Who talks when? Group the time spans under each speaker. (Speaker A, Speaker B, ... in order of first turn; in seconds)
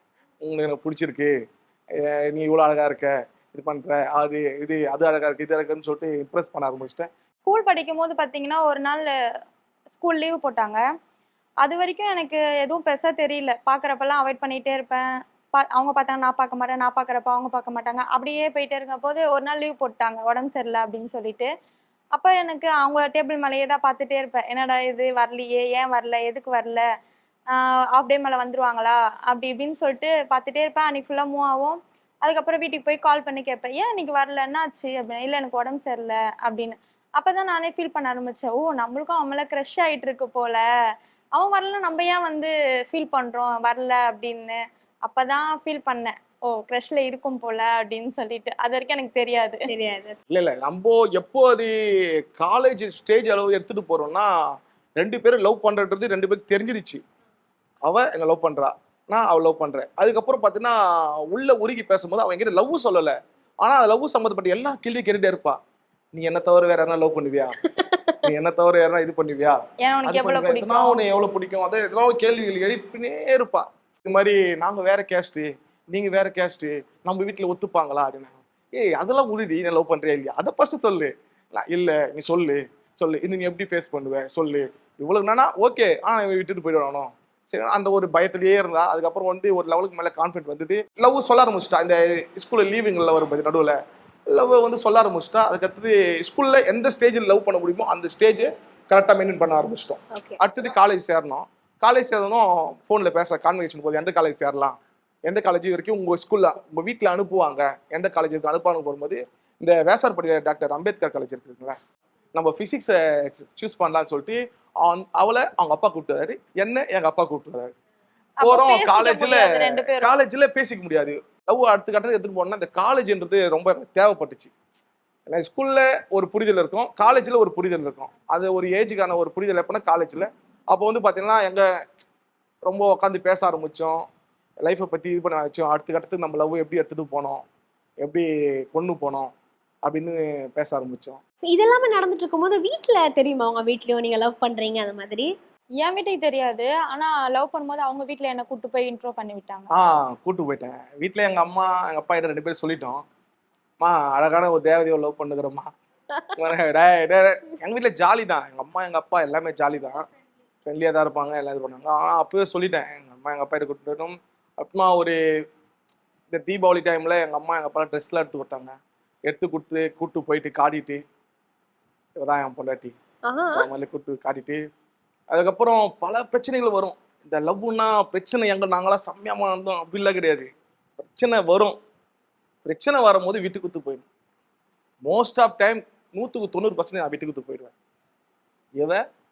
Speaker A: 0.4-1.3, 1.9-7.1, 50.3-54.3, 55.0-57.0, 57.8-65.6, 66.1-67.6, 68.2-93.8, 94.3-111.8, 112.3-117.7, 118.4-124.5, 125.3-131.7, 132.7-134.0, 134.6-137.4, 138.0-139.3, 139.8-141.2, 149.7-153.0, 153.8-155.7, 156.3-160.0, 160.6-165.2, 166.3-168.7, 169.3-171.0, 172.2-172.9, 173.5-174.6, 175.3-181.8, 182.6-184.1, 185.1-187.7
Speaker B: 7.4-9.1, 9.9-10.8, 11.6-15.0, 15.6-21.5, 22.1-26.8, 27.5-40.6, 41.3-49.6, 69.8-71.0, 118.4-120.1, 145.8-149.7
Speaker C: 49.7-50.2, 67.8-68.2, 100.1-100.4, 141.5-145.3, 173.2-173.7